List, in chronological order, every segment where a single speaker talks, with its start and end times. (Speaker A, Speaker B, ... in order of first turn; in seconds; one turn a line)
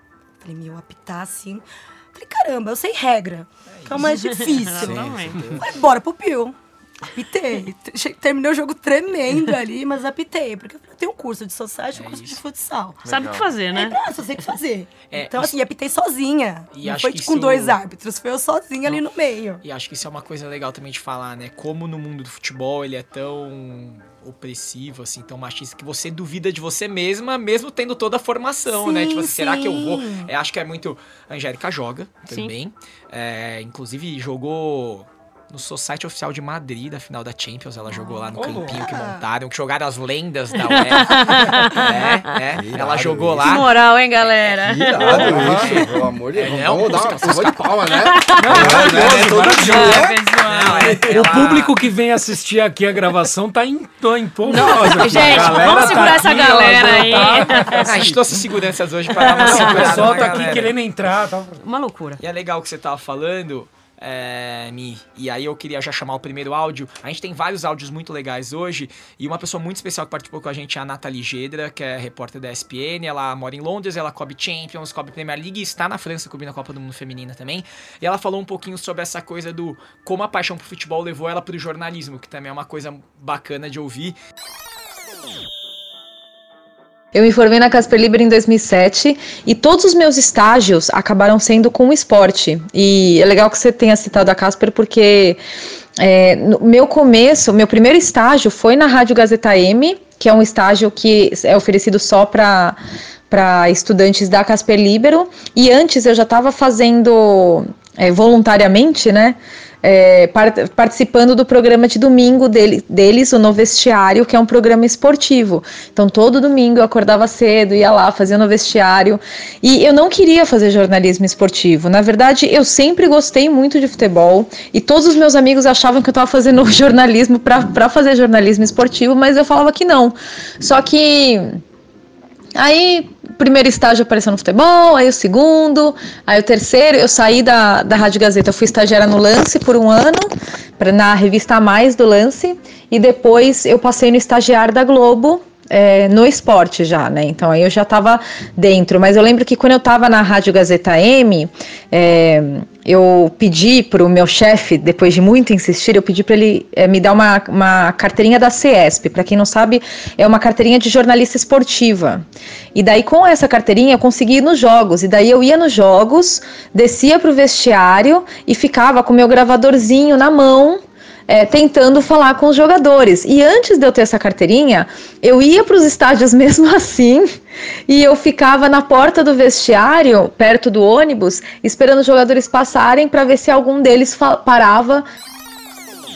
Speaker A: 0.4-13.0
Speaker B: 3.7-4.1
Speaker C: 4.0-5.5
Speaker D: 4.8-5.6
Speaker B: 11.9-12.4
Speaker C: 13.0-14.0
Speaker A: 13.7-19.6
Speaker B: 15.1-15.5
Speaker B: 16.7-17.8
Speaker B: 19.6-44.3
Speaker A: 28.7-30.3
Speaker C: 32.3-32.5
Speaker A: 38.0-39.2
Speaker E: 38.3-38.8
Speaker C: 40.6-42.3
Speaker D: 42.5-43.6
Speaker C: 43.4-45.8
Speaker D: 44.6-51.5
Speaker B: 45.0-47.8
Speaker C: 48.0-50.9
Speaker E: 48.4-50.0
Speaker B: 48.6-49.8
Speaker B: 50.5-51.8
Speaker E: 51.1-58.5
Speaker C: 54.4-57.9
Speaker D: 55.1-56.1
Speaker B: 57.8-60.7
Speaker E: 59.1-61.6
Speaker C: 59.2-60.6
Speaker C: 61.6-62.2
Speaker B: 62.2-84.2
Speaker F: 87.1-95.4
Speaker F: 96.0-102.8
Speaker F: 103.3-131.6
Speaker F: 132.5-162.2
Speaker F: 162.7-177.3
Speaker F: 177.9-185.0